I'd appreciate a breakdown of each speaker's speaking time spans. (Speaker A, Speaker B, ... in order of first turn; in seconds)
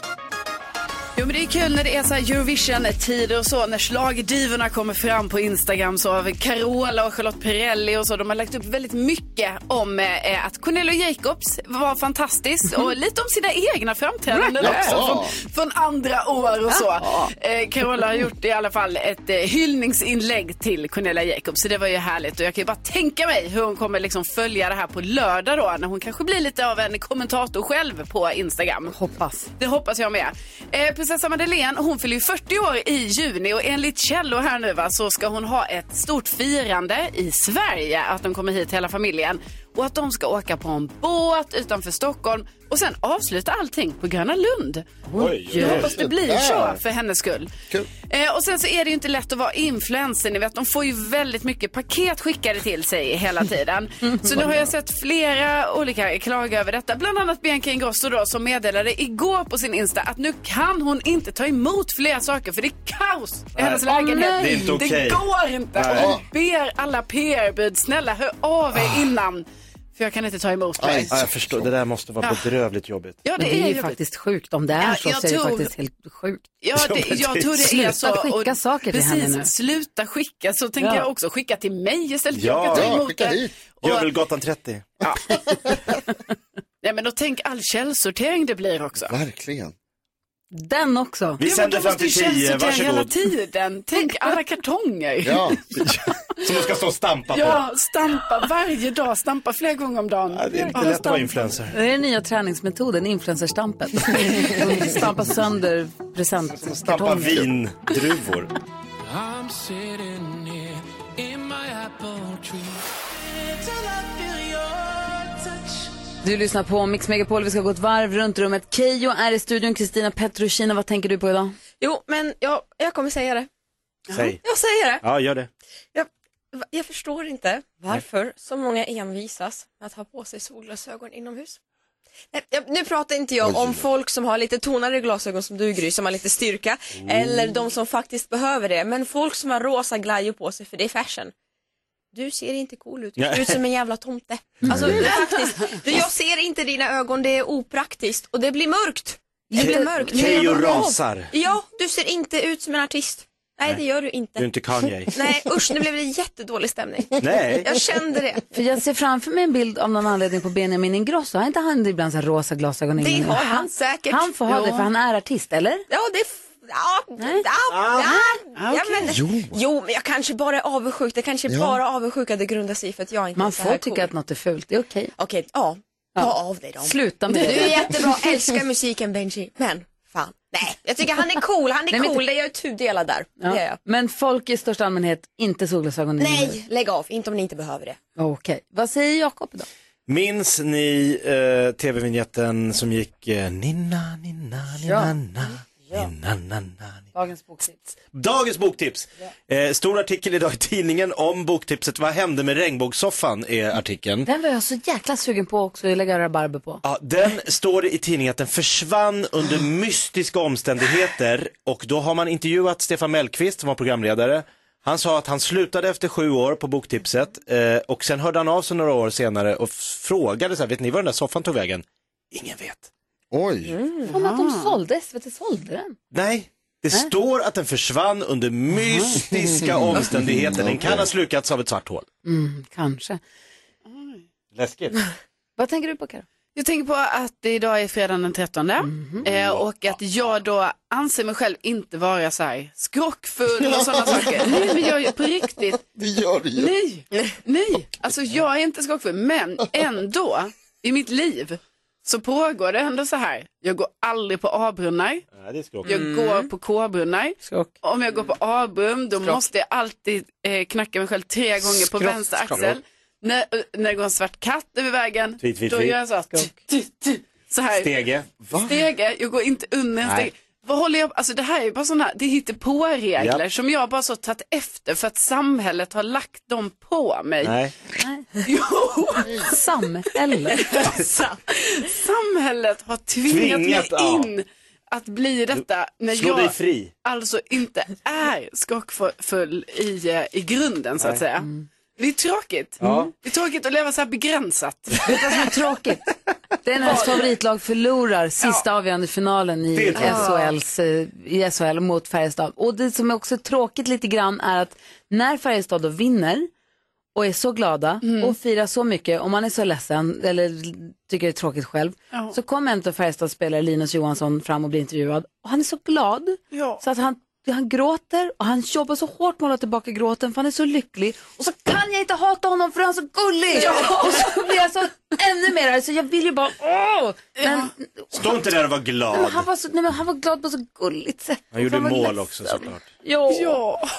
Speaker A: 1.1-28.9, 29.6-45.0, 45.6-47.5, 48.1-71.1, 73.2-74.0, 74.8-75.7, 76.6-84.1, 86.8-89.1, 91.5-95.6, 97.3-101.3, 164.5-164.9, 168.6-169.1, 224.1-224.8, 233.9-234.2, 236.5-245.8, 246.6-255.2, 255.8-267.9, 268.6-277.5, 278.4-279.5, 280.7-286.5, 287.0-295.2, 296.8-297.2, 308.0-308.4, 316.5-316.8, 323.5-324.3, 327.4-327.7, 333.3-333.9
Speaker B: 14.4-15.0, 16.7-17.3, 28.9-29.4, 45.1-45.9, 63.9-64.8, 73.4-76.5, 77.6-79.5, 80.8-81.0, 90.5-91.4, 101.7-107.5, 116.2-121.5, 149.5-149.9, 158.5-165.8, 167.2-167.4, 173.3-175.1, 176.2-178.0, 181.9-182.2, 183.4-186.6, 188.2-189.7, 194.8-195.1, 197.1-197.9, 204.2-206.8, 224.1-225.9, 228.8-229.2, 232.2-233.2, 235.6-236.2, 238.8-239.2, 278.0-278.2, 279.4-280.6, 295.0-296.1, 296.6-306.5, 307.1-328.4, 329.1-333.6
Speaker C: 14.6-15.3, 45.6-46.8, 65.9-66.2, 70.8-71.7, 82.7-83.5, 85.5-85.8, 89.0-89.7, 95.2-95.6, 133.4-133.9, 169.0-169.5, 171.5-171.8, 223.3-223.7, 229.3-231.1, 243.8-244.9, 245.8-246.7, 279.2-279.5
Speaker D: 45.2-46.0, 63.5-66.2, 71.1-73.2, 76.7-77.7, 82.3-83.0, 83.8-84.9, 91.4-93.1, 95.8-97.6, 100.3-101.7, 106.5-108.5, 124.1-124.4, 125.0-125.5, 136.9-137.5, 143.2-143.6, 144.6-145.0, 149.6-151.3, 154.3-155.1, 157.2-157.7, 167.7-168.2, 190.1-197.1, 198.1-204.3, 206.8-222.9, 226.1-232.1, 234.5-235.0, 239.2-239.9, 255.3-256.1, 261.6-262.8, 265.4-266.0, 267.7-268.3, 270.0-270.3, 277.4-277.7, 283.2-284.3, 285.6-286.9, 292.8-293.1, 299.7-300.3, 328.1-329.5, 331.5-332.8
Speaker E: 109.3-110.5, 111.2-112.8
Speaker F: 121.8-123.5, 124.4-125.0, 125.9-131.6, 132.3-141.3, 142.1-154.5, 155.1-158.4, 163.0-164.3, 165.9-174.1, 175.2-183.8, 186.2-188.0, 223.7-224.1, 255.9-256.5, 300.0-300.4